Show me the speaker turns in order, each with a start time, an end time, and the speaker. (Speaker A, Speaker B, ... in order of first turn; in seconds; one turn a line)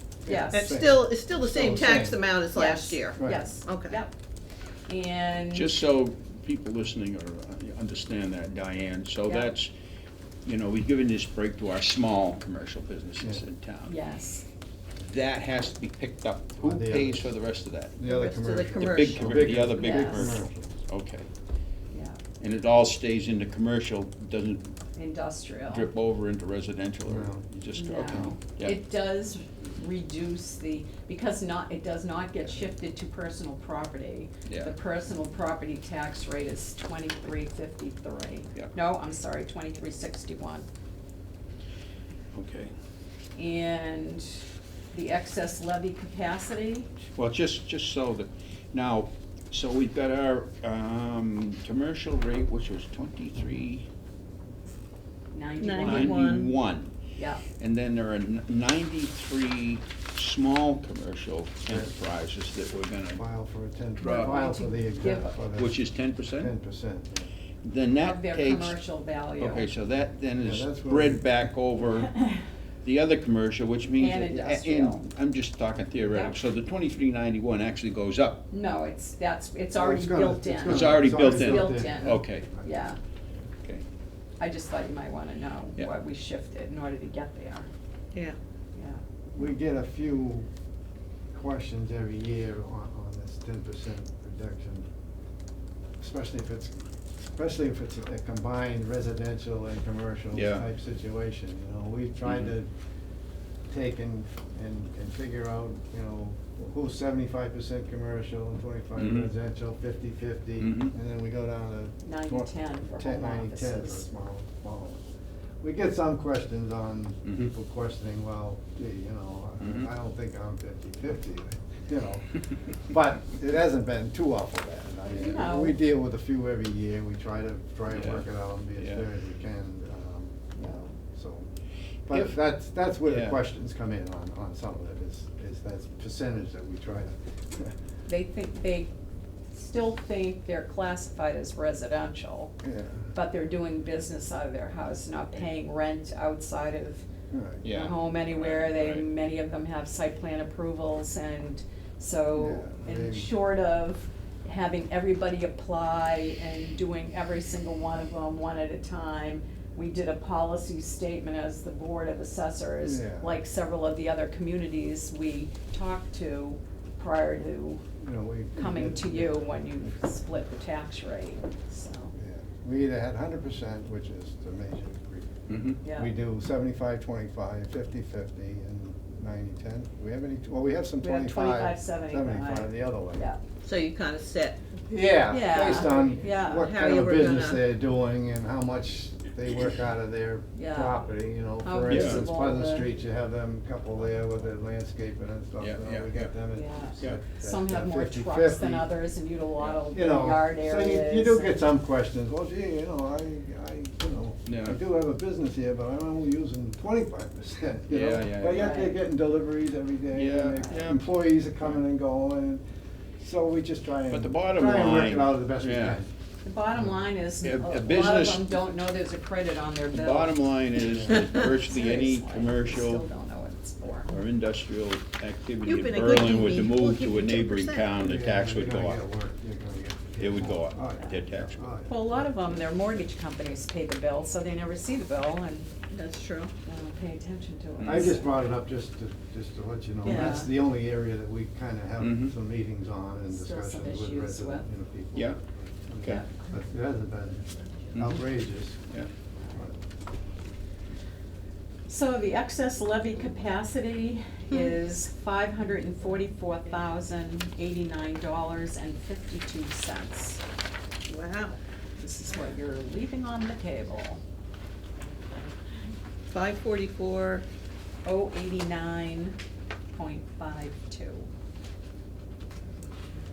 Speaker A: 0.2-2.2
Speaker B: 0.3-0.7
Speaker C: 0.5-4.0
Speaker B: 2.5-4.1
Speaker A: 3.2-3.5
Speaker B: 4.9-5.7
Speaker D: 5.5-9.7
Speaker B: 9.2-9.5
Speaker D: 10.4-13.9
Speaker B: 13.9-14.4
Speaker D: 15.0-17.9
Speaker A: 16.6-17.3
Speaker A: 17.9-20.7
Speaker C: 18.1-19.7
Speaker D: 18.8-21.3
Speaker B: 19.8-20.4
Speaker B: 21.9-22.2
Speaker D: 22.4-24.8
Speaker B: 24.9-25.9
Speaker D: 25.7-28.8
Speaker A: 27.1-27.4
Speaker B: 27.7-40.7
Speaker D: 34.5-34.7
Speaker D: 42.3-42.7
Speaker B: 43.4-46.9
Speaker D: 47.1-53.9
Speaker B: 55.3-56.4
Speaker C: 55.6-56.5
Speaker D: 55.8-56.9
Speaker B: 57.1-57.4
Speaker D: 57.6-63.2
Speaker A: 63.1-65.8
Speaker D: 64.0-64.3
Speaker B: 64.0-65.4
Speaker D: 65.5-66.5
Speaker A: 66.4-67.3
Speaker D: 67.6-68.8
Speaker B: 68.0-69.7
Speaker D: 69.4-72.2
Speaker A: 70.4-71.2
Speaker D: 72.8-78.4
Speaker B: 74.0-75.0
Speaker B: 76.0-76.3
Speaker B: 78.5-83.0
Speaker A: 79.8-82.7
Speaker D: 80.6-82.5
Speaker B: 84.4-87.7
Speaker B: 88.8-89.0
Speaker A: 89.3-90.5
Speaker A: 91.3-94.8
Speaker A: 96.0-96.8
Speaker A: 97.3-102.7
Speaker D: 100.3-100.7
Speaker D: 102.2-102.5
Speaker A: 103.7-115.0
Speaker D: 109.0-109.3
Speaker D: 110.6-110.9
Speaker B: 112.0-114.1
Speaker A: 115.6-131.5
Speaker D: 119.6-119.9
Speaker B: 125.1-125.8
Speaker D: 127.9-128.2
Speaker D: 128.8-129.0
Speaker A: 132.1-137.7
Speaker D: 133.0-133.4
Speaker B: 138.1-138.9
Speaker B: 139.5-142.5
Speaker A: 142.6-143.1
Speaker B: 143.1-147.0
Speaker A: 147.3-147.7
Speaker D: 147.6-149.1
Speaker B: 147.7-167.8
Speaker A: 152.3-153.3
Speaker A: 162.8-163.3
Speaker A: 168.0-169.4
Speaker B: 168.6-172.1
Speaker A: 172.1-183.3
Speaker D: 175.5-175.8
Speaker B: 175.8-176.1
Speaker B: 181.0-183.4
Speaker C: 183.6-184.8
Speaker A: 184.9-198.9
Speaker B: 185.3-186.8
Speaker C: 186.1-187.7
Speaker B: 190.5-191.1
Speaker B: 191.6-192.9
Speaker D: 191.8-192.2
Speaker D: 195.6-196.3
Speaker B: 196.5-201.6
Speaker A: 199.9-212.6
Speaker D: 204.5-204.8
Speaker D: 207.9-208.8
Speaker B: 208.5-209.0
Speaker D: 210.1-211.1
Speaker A: 213.2-216.1
Speaker D: 214.0-216.0
Speaker B: 216.4-224.1
Speaker D: 217.4-218.6
Speaker D: 219.9-223.0
Speaker A: 220.8-221.2
Speaker D: 224.1-229.0
Speaker C: 225.6-227.9
Speaker A: 228.0-232.8
Speaker D: 230.2-231.8
Speaker B: 231.9-235.7
Speaker C: 235.9-236.5
Speaker B: 236.6-238.3
Speaker D: 237.8-238.1
Speaker A: 237.8-248.9
Speaker B: 240.0-240.5
Speaker C: 240.0-240.4
Speaker D: 242.0-242.3
Speaker B: 243.3-244.7
Speaker D: 247.9-248.2
Speaker B: 249.4-249.7
Speaker B: 251.9-260.4
Speaker C: 261.1-261.6
Speaker B: 262.0-264.2
Speaker C: 266.3-267.5
Speaker B: 268.1-269.4
Speaker B: 270.0-271.3